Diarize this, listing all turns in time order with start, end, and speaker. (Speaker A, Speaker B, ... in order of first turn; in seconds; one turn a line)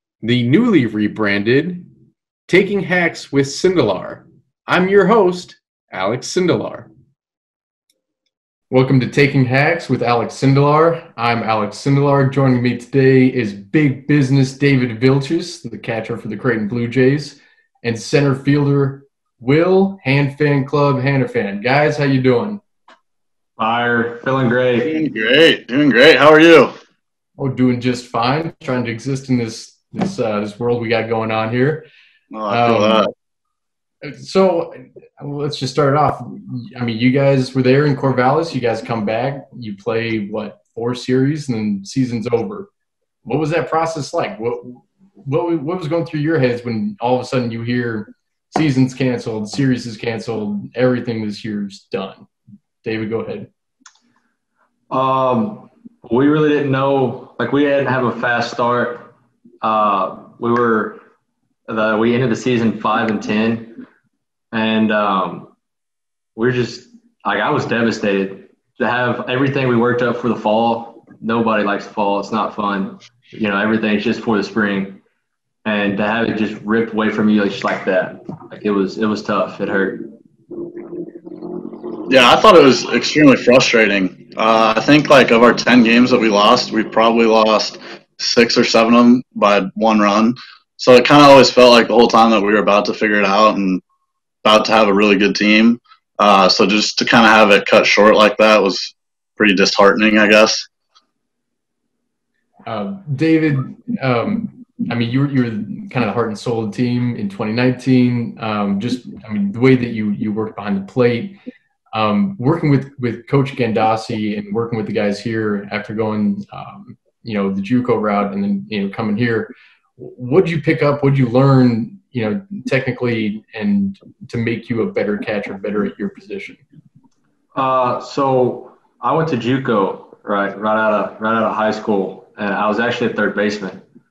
Speaker A: 0.2-1.8
Speaker A: 2.5-6.9
Speaker A: 8.7-22.6
Speaker B: 23.6-25.0
Speaker C: 24.9-26.7
Speaker A: 27.4-31.9
Speaker C: 32.3-33.1
Speaker A: 32.5-33.1
Speaker A: 34.0-42.7
Speaker A: 43.2-52.3
Speaker A: 52.8-53.5
Speaker B: 54.9-61.0
Speaker B: 61.7-63.8
Speaker B: 64.5-65.5
Speaker B: 66.3-75.0
Speaker B: 75.6-80.1
Speaker C: 82.1-93.8
Speaker C: 94.4-100.7
Speaker A: 102.7-111.4
Speaker A: 111.9-126.6
Speaker B: 127.5-133.8